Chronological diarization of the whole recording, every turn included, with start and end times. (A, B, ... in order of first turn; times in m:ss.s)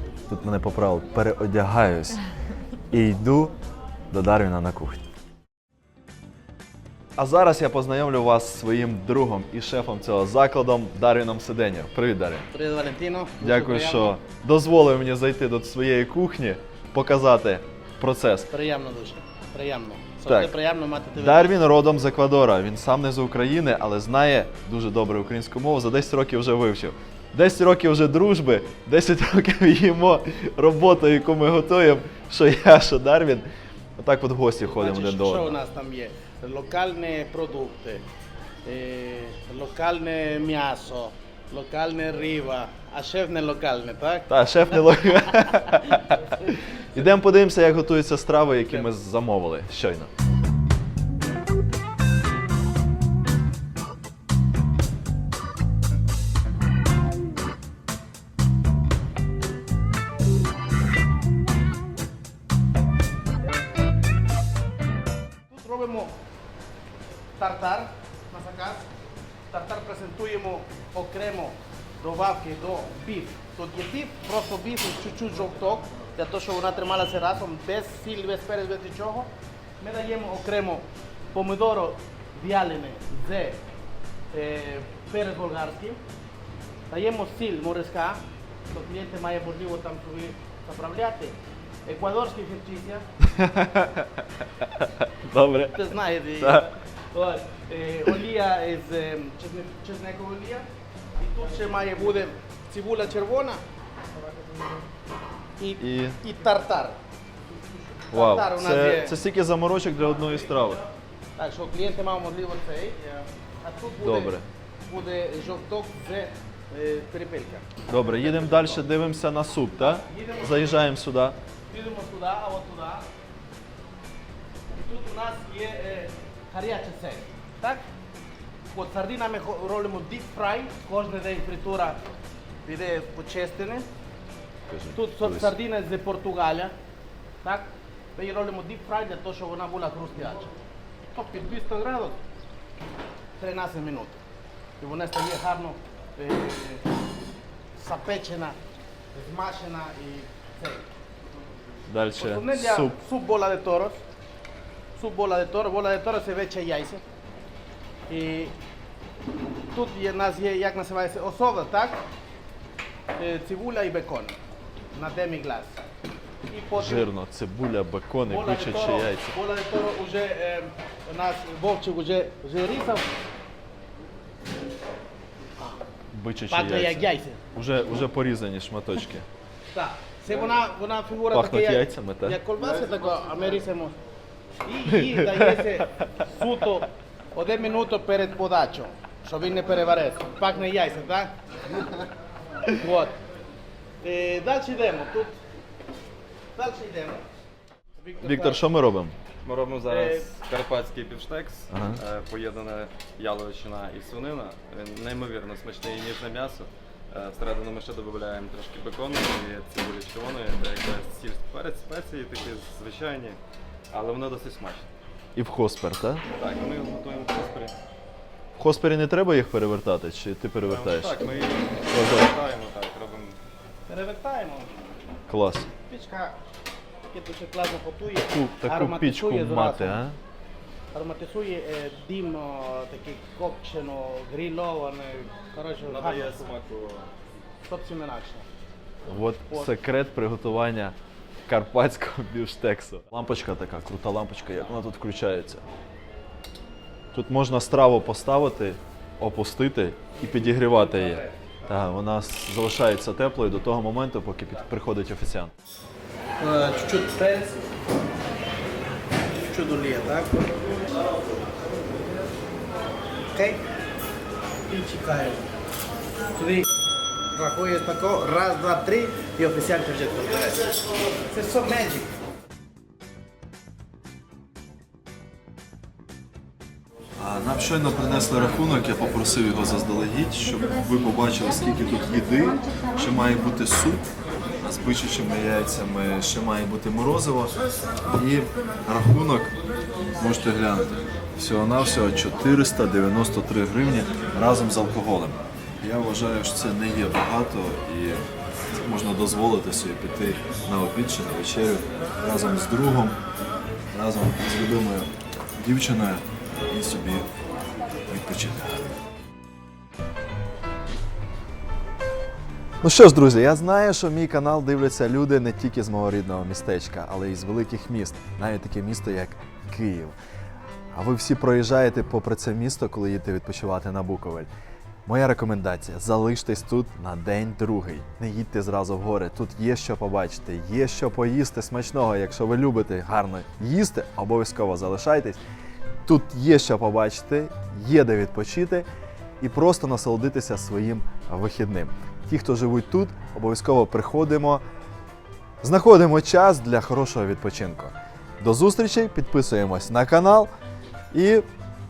0:00.3-0:02.2 A
0:02.9-0:03.5 A
0:04.1-0:05.0 A
0:07.2-0:12.5 A
0:12.5-0:14.2 B
0:13.4-0:18.5 A
0:18.5-0:21.6 B
0:20.3-0:20.5 A
0:21.2-0:35.6 A
0:34.6-0:38.0 B
0:38.6-0:44.3 B
0:44.3-0:50.1 A
1:05.5-1:06.1 B
1:07.4-1:08.9 B
1:09.5-1:23.6 B
1:24.3-1:26.0 B
1:26.9-1:33.0 B
1:33.2-1:35.8 A
1:35.7-1:40.7 B
1:36.4-1:36.7 A
1:41.2-1:43.6 B
1:45.6-1:47.0 B
1:45.8-1:46.2 A
1:47.5-1:49.2 B
1:48.1-1:50.8 A
1:51.4-1:58.8 B
1:54.0-1:54.4 A
1:57.9-2:01.4 A
1:59.9-2:00.7 B
2:01.7-2:03.1 B
2:04.7-2:07.8 B
2:08.7-2:12.0 B
2:12.6-2:13.9 B
2:14.7-2:15.5 A
2:14.9-2:16.7 B
2:17.4-2:20.5 B
2:21.1-2:22.2 B
2:23.4-2:24.2 B
2:24.8-2:26.8 B
2:27.8-2:28.6 B
2:29.1-2:30.8 B
2:31.9-2:33.0 A
2:32.2-2:34.0 B
2:35.0-2:37.0 B
2:38.1-2:38.5 B
2:39.7-2:42.0 B
2:43.2-2:44.4 B
2:44.9-2:45.8 B
2:46.5-2:47.1 B
2:46.8-2:49.3 A
2:48.2-2:53.1 B
2:56.1-2:59.3 A
2:56.5-2:57.4 B
2:59.7-3:04.0 B
3:01.3-3:02.4 A
3:04.6-3:11.3 B
3:04.9-3:05.8 A
3:12.7-3:13.2 B
3:14.0-3:15.4 B
3:16.5-3:17.2 B
3:18.0-3:18.6 B
3:18.2-3:19.2 A
3:19.4-3:33.4 C
3:19.8-3:20.3 B
3:21.7-3:22.0 A
3:33.9-3:34.9 C
3:35.4-3:36.2 A
3:36.3-3:37.7 C
3:38.6-3:41.2 A
3:40.6-3:43.4 C
3:41.9-3:42.3 A
3:43.9-3:44.7 B
3:45.3-3:45.7 A
3:45.9-3:46.4 B
3:47.1-3:50.0 B
3:48.3-3:50.2 A
3:50.9-3:56.5 B
3:55.9-3:57.1 C
3:57.6-3:58.4 B
3:59.0-4:01.0 A
4:01.5-4:05.6 A
4:07.1-4:15.5 A
4:16.4-4:17.6 B
4:19.4-4:20.6 B
4:23.3-4:23.6 B
4:24.7-4:25.5 B
4:26.3-4:26.7 B
4:27.3-4:30.6 B
4:31.3-4:32.1 B
4:37.2-4:44.0 A
4:44.6-4:47.6 A
4:48.1-4:49.5 A
4:50.1-5:03.2 A
5:03.9-5:07.3 A
5:08.1-5:09.0 A
5:12.8-5:20.1 A
5:20.9-5:24.5 A
5:25.0-5:35.4 A
5:36.0-5:38.9 A
5:39.4-5:44.6 A
5:45.6-5:50.5 A
5:51.1-5:51.4 A